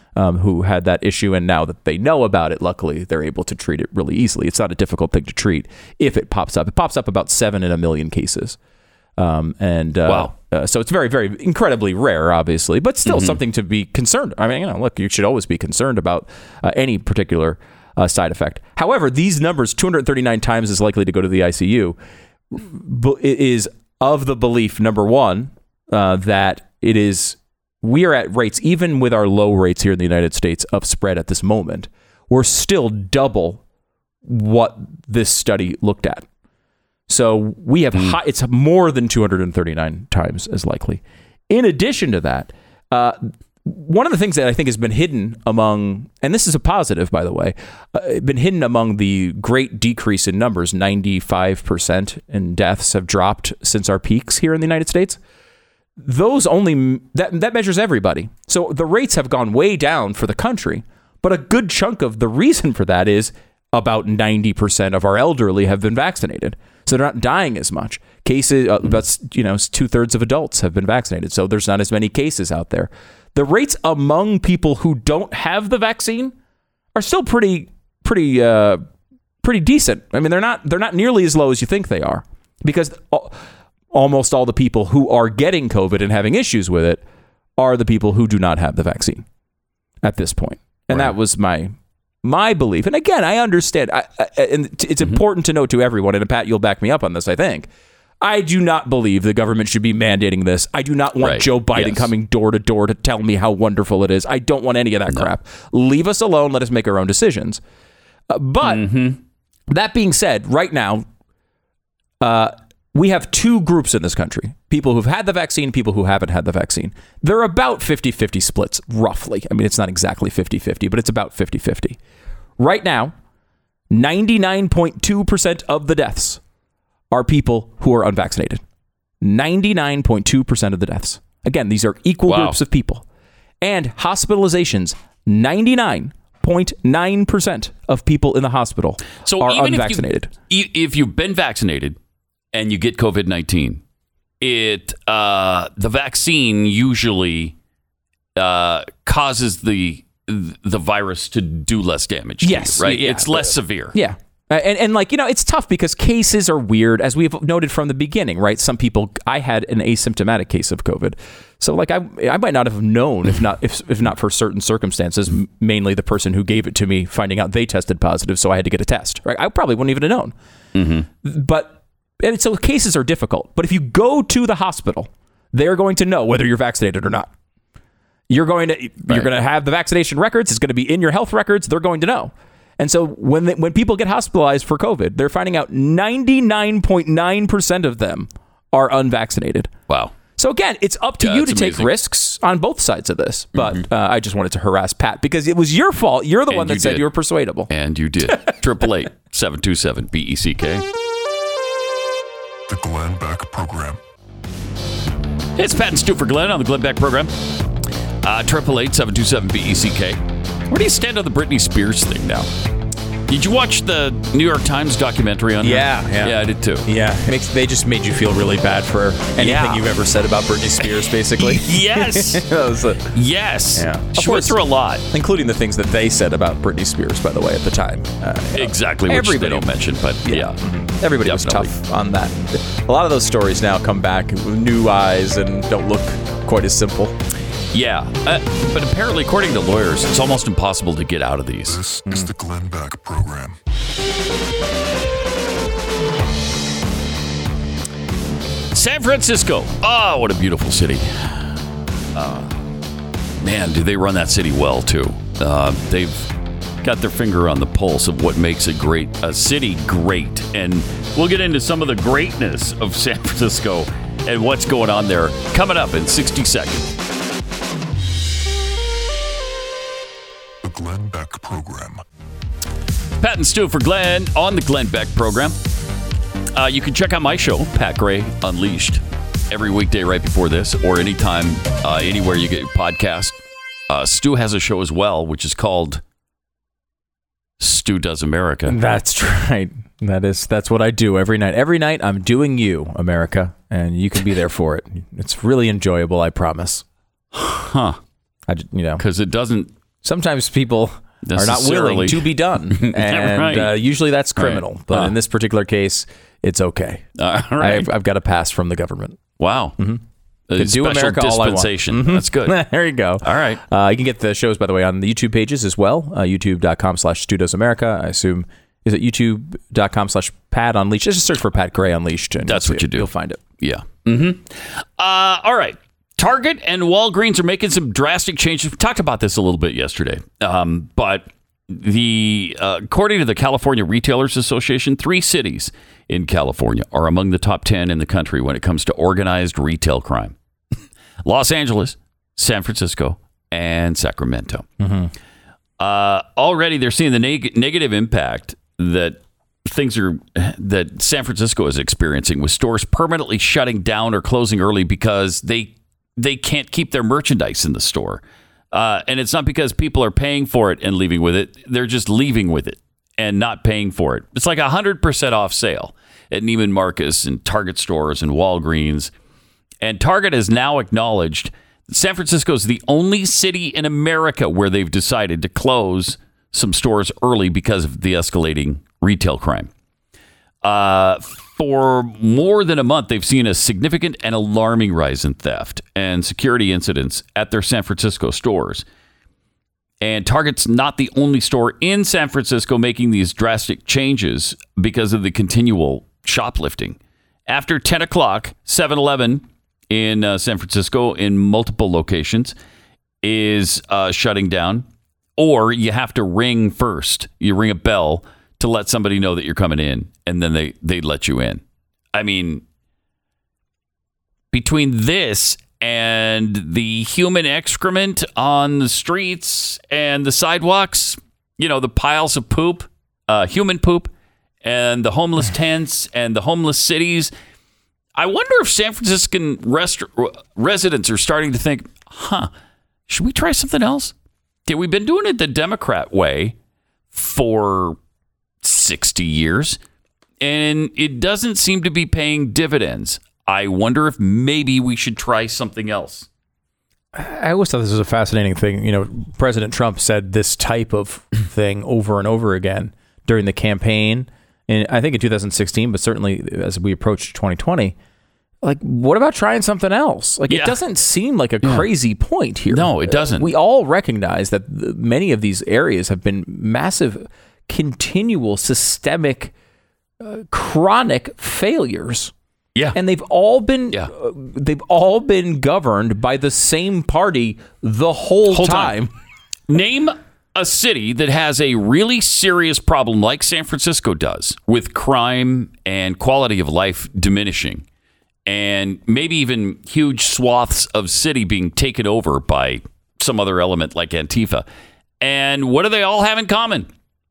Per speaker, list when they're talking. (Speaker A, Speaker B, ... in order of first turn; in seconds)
Speaker A: 0.1-8.6, 9.2-22.0, 22.5-33.6, 34.2-36.3, 37.1-55.2, 56.0-76.3, 77.0-78.8, 79.4-83.4, 83.9-87.0, 87.6-89.2, 90.0-97.7, 98.2-107.6, 108.3-108.9, 109.7-111.1, 112.2-122.0, 122.6-123.1, 123.9-126.4, 127.1-128.6, 129.2-133.1, 133.6-140.3, 152.4-170.3, 171.2-177.3, 178.3-189.7, 190.4-197.7, 215.6-223.1, 223.8-229.7, 230.2-237.2, 242.1-242.3, 288.7-296.9, 298.5-299.0, 300.0-307.1, 307.6-309.2, 309.8-310.0, 310.6-323.4, 344.8-345.1, 447.1-457.9, 458.6-469.5, 470.2-472.3, 472.9-479.1
Speaker B: 10.1-10.3, 13.1-13.4, 101.2-102.1, 108.6-109.2, 132.3-132.6, 139.2-142.0, 142.5-143.8, 144.4-147.6, 148.4-154.0, 170.8-171.1, 189.9-190.2, 191.2-191.9, 193.6-193.8, 196.5-197.1, 197.7-200.8, 205.6-207.3, 208.2-212.5, 213.3-216.9, 219.4-219.8, 221.4-222.5, 223.0-225.1, 228.5-230.6, 231.2-231.7, 237.7-241.8, 248.7-251.6, 252.1-252.6, 253.4-266.9, 273.2-275.6, 276.6-283.4, 283.9-286.0, 287.6-288.8, 297.3-298.0, 299.0-299.7, 301.2-303.8, 304.4-305.2, 307.2-307.9, 309.4-309.8, 310.5-312.7, 313.2-313.6, 322.4-340.4, 341.2-344.7, 345.8-369.1, 369.8-379.7, 380.6-388.9, 390.0-402.6, 403.2-411.6, 412.1-412.6, 414.5-424.1, 424.6-427.3, 428.2-432.5, 433.1-434.1, 434.7-436.6, 437.1-438.0, 438.6-439.8, 440.4-446.3, 460.5-460.8, 462.7-463.5, 478.5-478.9, 479.7-487.9, 488.5-494.7, 495.2-496.9
Speaker C: 202.7-204.0, 241.7-243.6, 270.6-272.0